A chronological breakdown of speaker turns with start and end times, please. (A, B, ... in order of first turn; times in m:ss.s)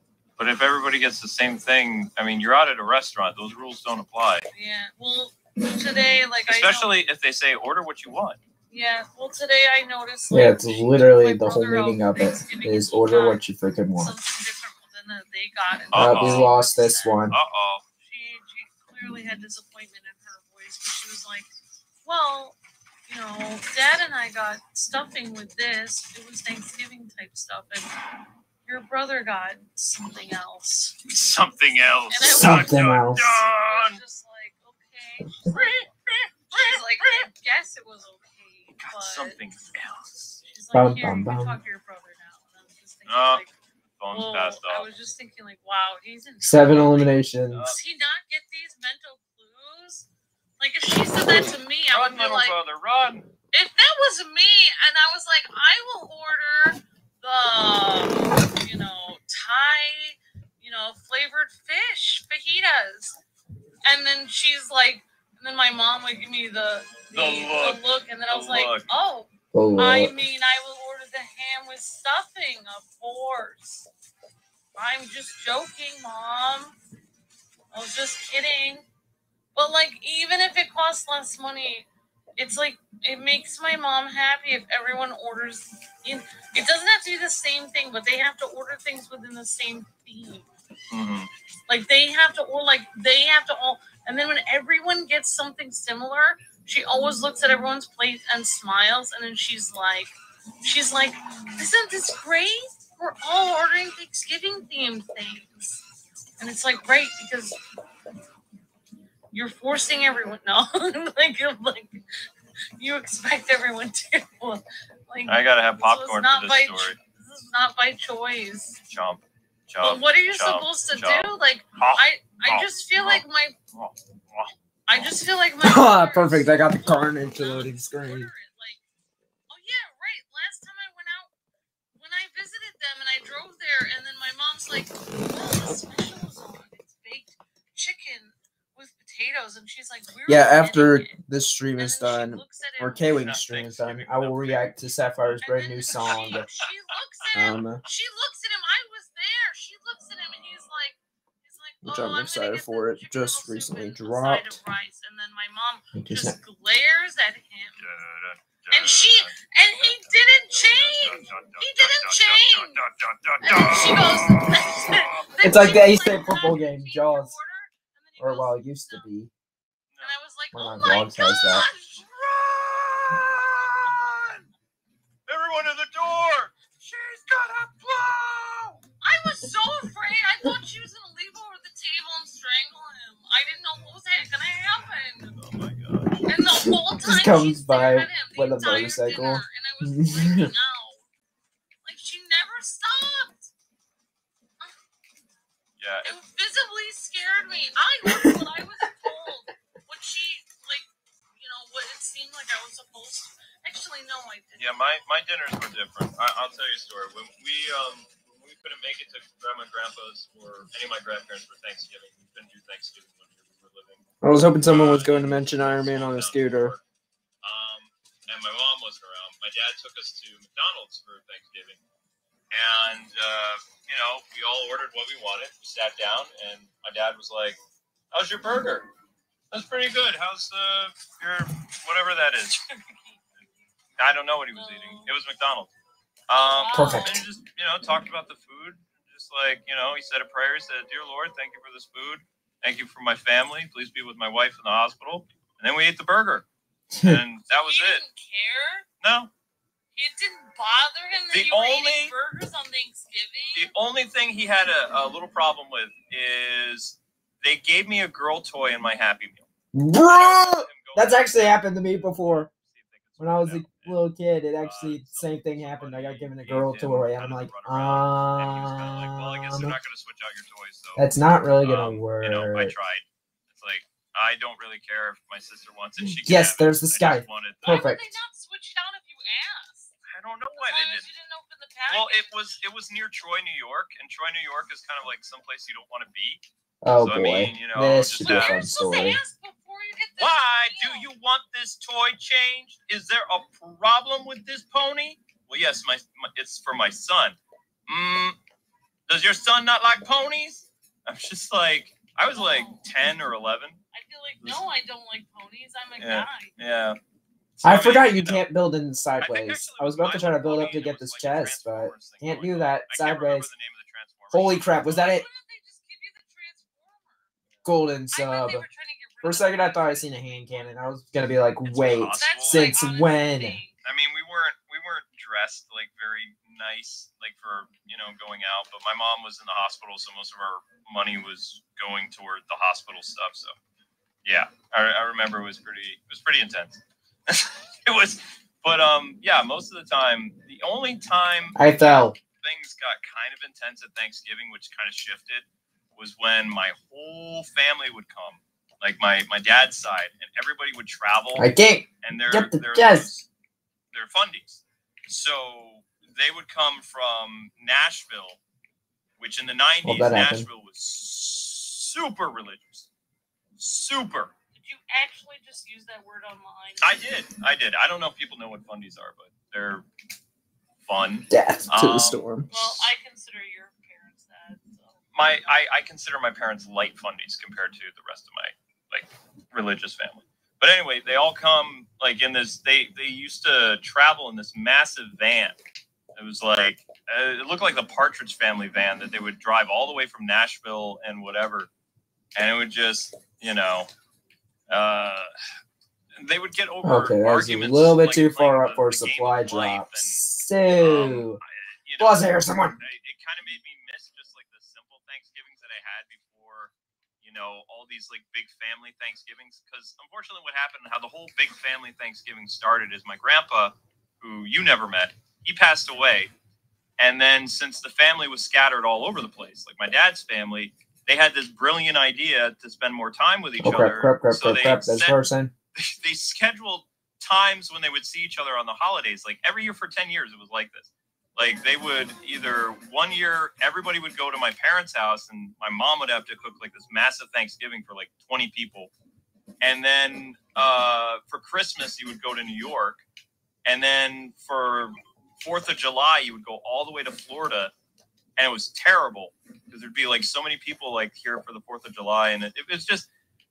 0:00.4-0:04.5 A
0:04.5-0:06.9 B
0:06.5-0:08.4 A
0:08.7-0:13.4 B
0:10.3-0:14.2 C
0:14.0-0:17.3 B
0:15.9-0:16.5 A
0:16.0-0:17.4 C
0:17.3-0:17.8 A
0:18.0-0:21.5 B
0:22.0-0:28.0 B
0:28.7-0:31.0 B
0:31.0-0:34.0 A
0:32.1-0:35.9 B
0:32.3-0:33.4 C
0:35.5-0:37.3 A
0:36.5-0:39.4 B
0:38.8-0:40.4 A
0:40.4-0:43.5 B
0:40.7-0:41.6 C
0:43.1-0:43.4 A
0:44.0-0:44.9 A
0:44.1-0:50.1 B
0:46.4-0:47.7 C
0:47.5-0:47.8 A
0:50.6-0:52.6 B
0:51.9-0:53.3 A
0:53.5-1:03.2 B
1:03.8-1:13.9 B
1:07.1-1:08.9 A
1:09.5-1:10.2 C
1:14.8-1:16.8 B
1:17.7-1:18.9 B
1:19.6-1:30.5 B
1:30.9-1:31.3 A
1:31.7-1:45.8 B
1:46.4-1:47.6 B
1:49.3-1:52.0 B
1:52.8-1:58.8 B
1:55.3-1:57.0 A
1:58.9-2:03.2 A
1:59.8-2:03.6 B
2:03.7-2:05.1 A
2:04.9-2:08.8 B
2:05.6-2:08.3 C
2:09.5-2:11.3 B
2:11.9-2:21.1 B
2:20.3-2:26.5 C
2:21.8-2:23.4 B
2:23.2-2:24.7 A
2:25.4-2:37.8 B
2:25.9-2:27.6 A
2:27.3-2:27.8 C
2:31.8-2:34.6 C
2:35.9-2:36.4 C
2:37.8-2:45.3 A
2:38.7-2:42.8 B
2:43.4-2:49.1 B
2:45.4-2:47.3 C
2:48.2-2:49.3 C
2:50.0-2:52.0 B
2:50.5-2:51.7 C
2:51.6-2:54.4 A
2:55.3-2:58.8 A
2:59.0-3:05.4 B
3:05.3-3:06.3 A
3:06.2-3:11.1 B
3:06.5-3:10.5 C
3:11.8-3:13.5 B
3:15.8-3:16.2 A
3:16.0-3:25.0 B
3:24.6-3:34.0 A
3:34.2-3:36.8 C
3:34.6-3:36.8 A
3:37.4-3:41.8 A
3:42.5-3:47.6 A
3:48.1-3:48.9 A
3:49.5-3:52.7 A
3:52.7-3:53.3 B
3:54.0-3:55.7 A
3:54.5-3:55.2 B
3:56.3-4:06.5 A
3:56.3-3:57.2 B
3:56.7-3:57.1 C
4:06.9-4:07.2 C
4:07.0-4:08.0 A
4:07.5-4:08.9 B
4:09.0-4:09.3 A
4:10.0-4:13.7 B
4:11.3-4:12.1 A
4:13.6-4:19.5 A
4:19.7-4:22.5 C
4:20.0-4:24.0 A
4:23.2-4:29.8 C
4:24.6-4:31.1 A
4:31.0-4:32.7 C
4:31.6-4:37.9 A
4:36.0-4:38.1 C
4:37.6-4:39.9 B
4:40.1-4:41.1 A
4:40.5-4:42.6 B
4:41.9-4:46.5 A
4:46.8-4:49.2 C
4:47.0-4:48.9 A
4:48.2-4:51.1 B
4:50.2-4:58.4 A
4:59.1-5:03.8 A
5:02.3-5:03.0 B
5:03.9-5:06.6 B
5:06.0-5:07.0 A
5:07.6-5:08.5 A
5:07.6-5:13.5 C
5:09.2-5:15.2 A
5:14.3-5:15.2 C
5:14.9-5:17.3 B
5:17.6-5:18.7 C
5:18.1-5:20.8 B
5:19.2-5:23.6 C
5:21.7-5:22.8 A
5:21.9-5:23.8 B
5:23.8-5:33.6 A
5:34.2-5:51.5 A
5:41.6-5:42.2 C
5:51.4-5:53.1 C
5:52.0-5:53.3 A
5:53.9-5:58.4 A
5:59.2-6:02.9 A
5:59.8-6:00.5 C
6:03.6-6:04.3 A
6:04.5-6:07.0 B
6:06.8-6:09.9 A
6:10.9-6:12.8 A
6:11.3-6:12.5 C
6:12.5-6:15.0 B
6:15.1-6:25.6 A
6:26.2-6:31.7 A
6:32.4-6:33.9 A
6:34.7-6:35.3 A
6:36.2-6:40.2 A
6:36.8-6:41.4 C
6:40.8-6:42.2 A
6:42.0-6:42.8 C
6:42.8-6:56.3 A
6:57.0-7:05.2 A
7:03.6-7:05.5 C
7:05.8-7:18.9 A
7:19.6-7:23.0 A
7:23.6-7:27.7 A
7:28.4-7:33.1 A